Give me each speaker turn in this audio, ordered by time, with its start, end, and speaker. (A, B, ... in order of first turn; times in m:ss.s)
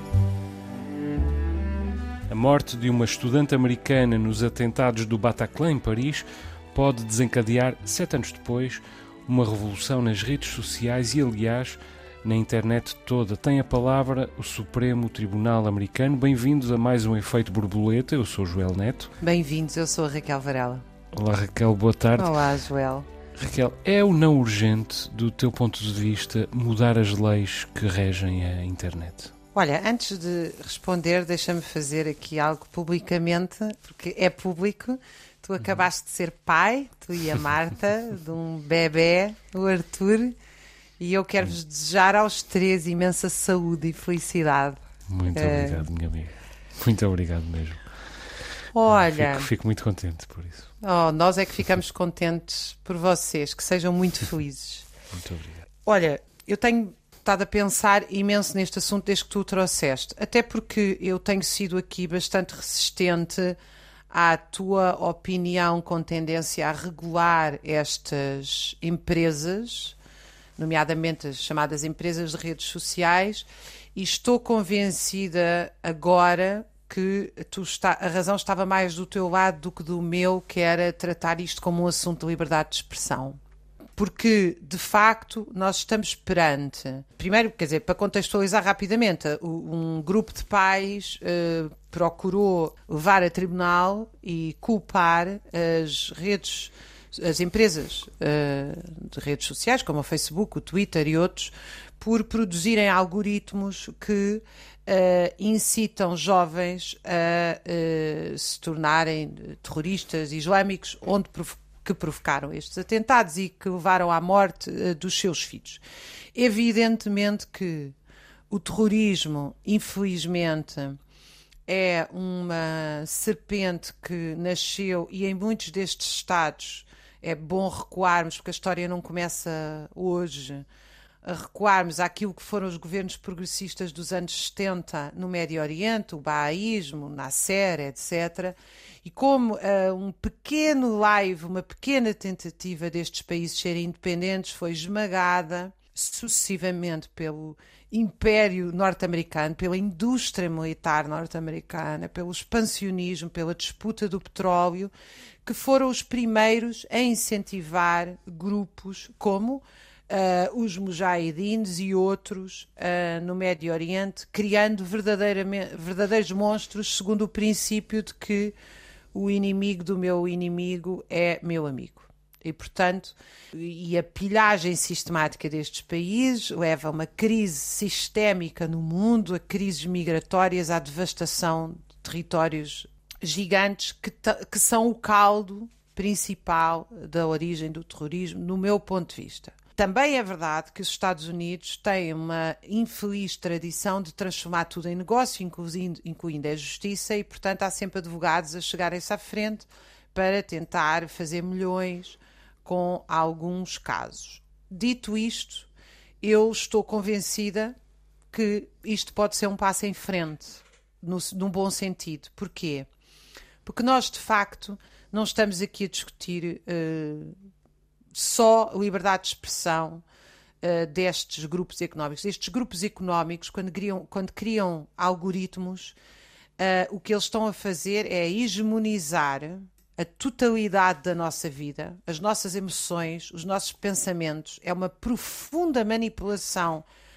0:02.3-0:19.1 A
0:19.2-0:20.8 B
0:21.1-0:22.4 A
0:22.2-0:23.1 B
0:23.4-0:29.3 A
0:29.6-0:40.4 B
0:41.0-0:45.8 B
0:45.1-0:48.0 A
0:48.7-0:49.5 B
0:48.9-0:50.7 A
0:50.8-0:54.9 B
0:55.1-0:55.6 A
0:55.9-1:03.6 B
1:04.1-1:10.0 B
1:10.6-1:23.4 B
1:24.0-1:55.8 B
1:56.4-1:58.0 B
1:58.5-2:01.0 B
2:01.7-2:10.7 B
2:11.2-2:34.9 B
2:35.4-2:48.5 B
2:49.1-3:25.7 B
3:26.2-3:27.8 B
3:28.3-3:32.9 B
3:33.6-3:37.4 B
3:38.1-3:40.0 B
3:40.6-3:46.0 B
3:46.6-3:56.8 B